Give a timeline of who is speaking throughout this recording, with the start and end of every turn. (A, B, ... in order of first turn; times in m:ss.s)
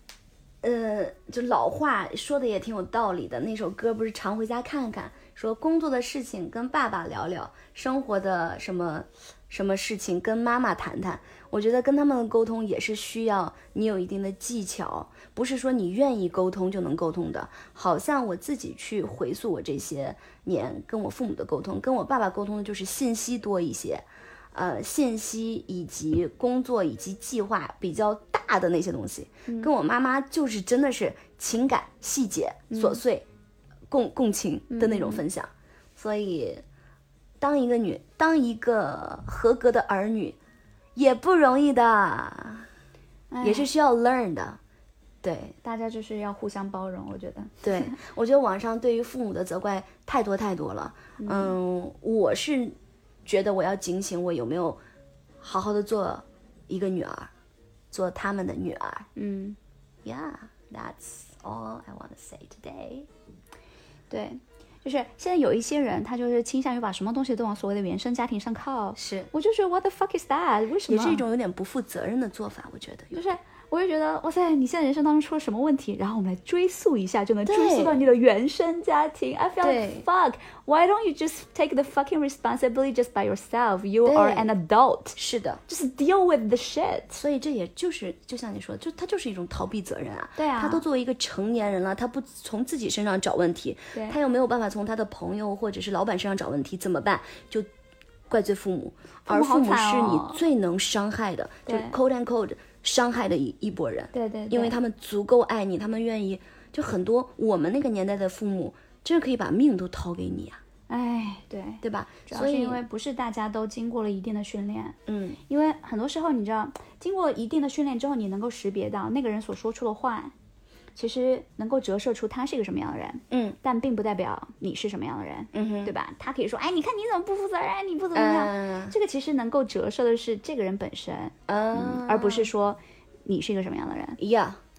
0:00.6-0:33.2 A
0:32.7-0:33.0 B
0:33.9-0:36.6 A
0:34.7-0:35.2 B
0:37.4-0:40.4 A
0:40.9-0:42.7 A
0:43.3-0:43.7 B
0:43.4-0:44.6 A
0:45.2-0:45.6 A
0:45.6-0:48.0 B
0:47.6-0:54.8 A
0:51.2-0:51.5 B
0:55.4-0:57.3 A
0:57.9-0:59.1 A
0:59.2-0:59.6 B
1:00.0-1:03.1 A
1:04.1-1:11.2 B
1:09.0-1:09.3 A
1:10.9-1:13.2 A
1:13.1-1:25.2 B
1:17.4-1:18.0 A
1:19.6-1:20.0 A
1:24.0-1:24.5 A
1:25.2-1:25.6 A
1:25.7-1:27.2 B
1:27.1-1:37.7 A
1:30.4-1:30.8 B
1:38.3-1:50.6 A
1:39.2-1:40.4 B
1:41.6-1:42.0 B
1:44.1-1:44.8 B
1:50.9-2:00.3 B
1:51.8-1:52.8 A
1:55.1-1:55.4 A
2:01.0-2:14.2 B
2:03.3-2:03.6 A
2:05.5-2:05.9 A
2:08.1-2:08.9 A
2:11.5-2:12.5 A
2:14.2-2:14.6 A